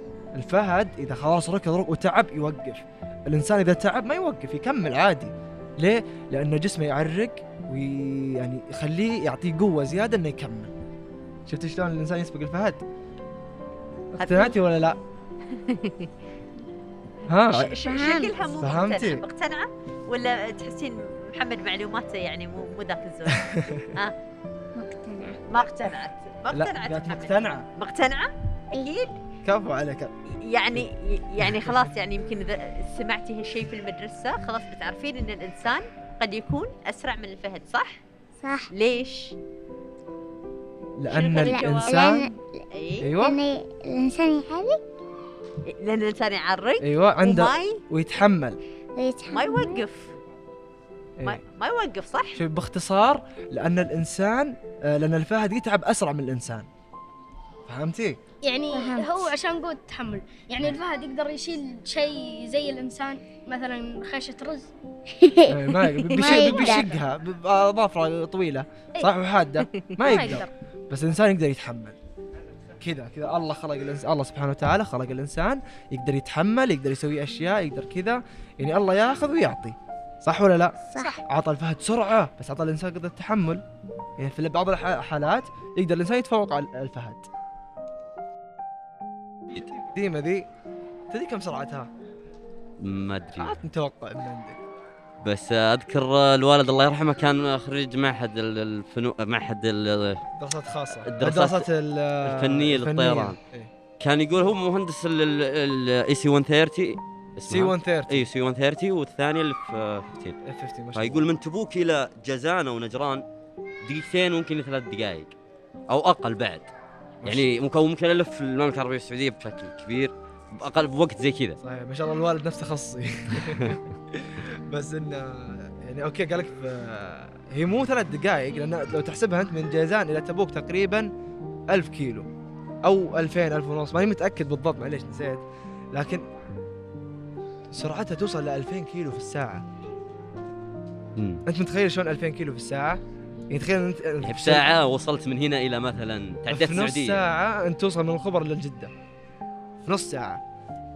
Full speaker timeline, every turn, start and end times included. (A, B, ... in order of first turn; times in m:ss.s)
0:00.3-0:10.7 A
0:11.5-0:12.8 A
0:14.2-0:15.0 A
0:14.2-0:14.6 B
0:15.5-0:16.1 B
0:17.3-0:17.8 A
0:17.5-0:24.2 B
0:17.9-0:18.4 C
0:18.6-0:19.2 A
0:23.3-0:23.9 A
0:24.8-0:25.4 C
0:25.5-0:29.2 B
0:26.5-0:27.7 A
0:29.4-0:30.1 A
0:30.3-0:38.0 B
0:31.4-0:31.8 A
0:38.4-0:38.7 C
0:38.7-0:39.4 B
0:41.0-0:42.3 A
0:41.1-0:42.2 B
0:41.3-0:42.6 C
0:42.7-0:43.1 B
0:43.0-0:43.4 A
0:43.1-0:44.8 C
0:45.7-0:47.8 B
0:46.8-0:48.6 A
0:49.0-0:49.8 C
0:49.3-0:50.2 B
0:51.2-0:52.4 B
0:52.4-0:56.7 A
0:57.7-0:58.2 A
0:58.4-1:04.7 D
0:58.7-0:59.3 C
1:05.2-1:06.9 C
1:05.5-1:12.0 A
1:06.4-1:06.8 D
1:10.0-1:10.5 D
1:12.8-1:23.6 A
1:20.9-1:21.2 C
1:24.2-1:27.3 A
1:29.8-1:30.5 A
1:31.1-1:31.9 A
1:32.8-1:33.5 E
1:33.4-1:34.6 A
1:35.2-1:40.2 E
1:40.4-1:43.7 A
1:41.0-1:41.7 E
1:42.2-1:43.4 E
1:44.0-1:50.4 E
1:47.5-1:48.3 A
1:50.4-1:51.3 A
1:51.0-1:53.2 E
1:53.8-1:55.3 E
1:55.9-1:56.7 E
1:57.2-1:57.5 A
1:57.2-2:01.6 E
2:01.6-2:11.1 A
2:11.7-2:12.3 A
2:12.8-2:16.3 A
2:17.7-2:19.6 A
2:21.2-2:21.4 E
2:21.5-2:24.7 A
2:24.2-2:27.2 E
2:26.5-2:28.9 A
2:29.8-2:30.4 A